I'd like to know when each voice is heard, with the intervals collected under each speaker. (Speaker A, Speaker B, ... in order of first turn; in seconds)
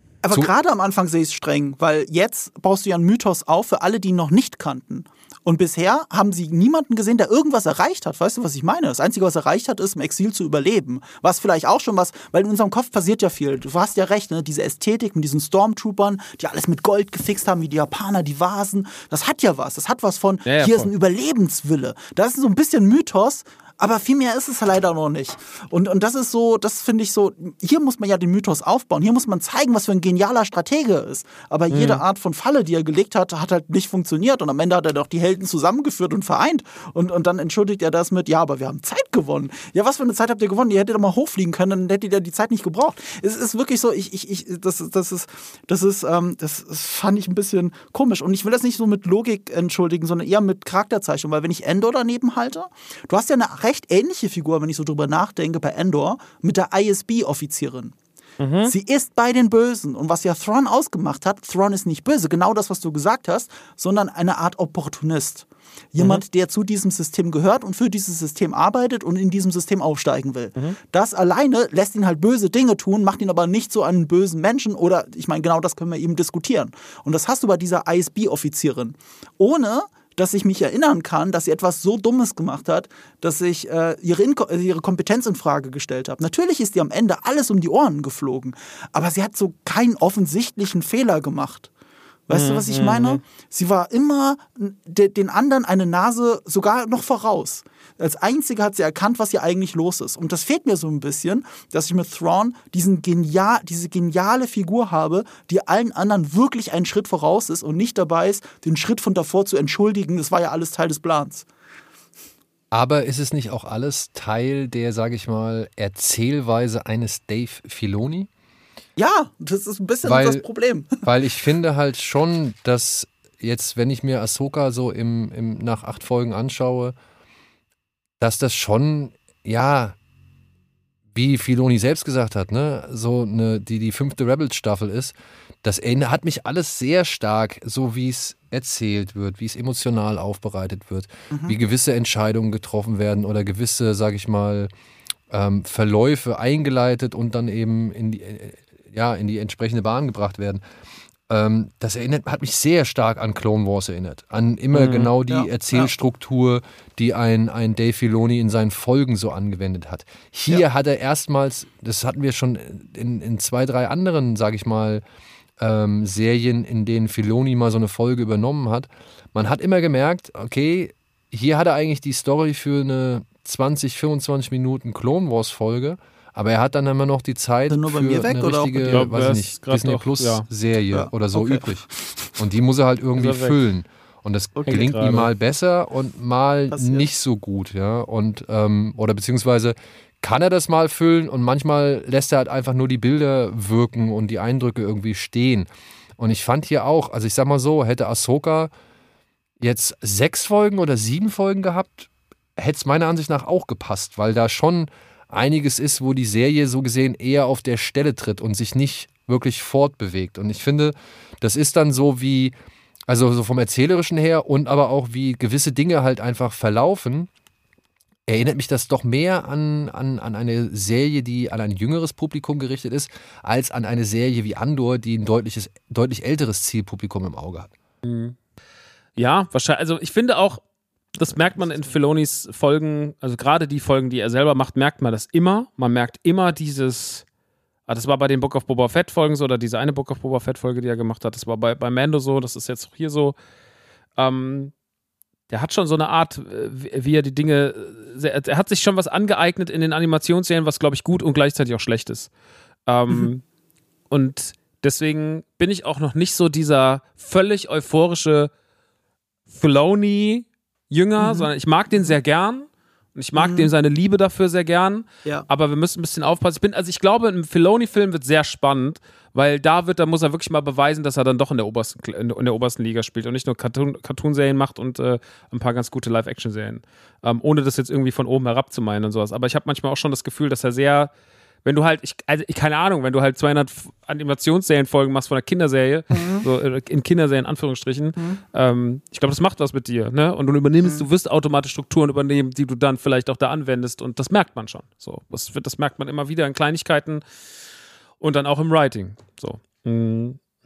Speaker A: 0.2-58.0, 58.6-91.7, 92.3-111.5, 119.0-121.0, 141.3-141.6, 155.3-155.9, 177.7-179.0, 180.9-182.3, 186.7-187.1, 261.2-261.5, 263.4-263.7, 286.1-286.5
Speaker B: 20.5-20.9, 31.7-32.0, 58.4-58.7, 66.0-66.2, 92.3-93.2, 154.7-155.1, 178.9-180.5, 183.2-183.6, 184.7-185.3, 228.0-228.3, 229.2-230.6, 231.2-237.2, 237.9-243.4, 244.2-244.7, 245.5-252.3, 252.9-253.4, 254.1-258.5, 259.5-281.1, 281.6-297.2, 298.2-300.4
Speaker C: 112.7-118.3, 120.0-120.4, 121.0-127.0, 128.2-130.0, 131.1-144.7, 145.3-150.6, 151.3-165.0, 165.6-195.7, 196.2-198.7, 199.6-212.5, 213.1-217.3, 218.3-227.7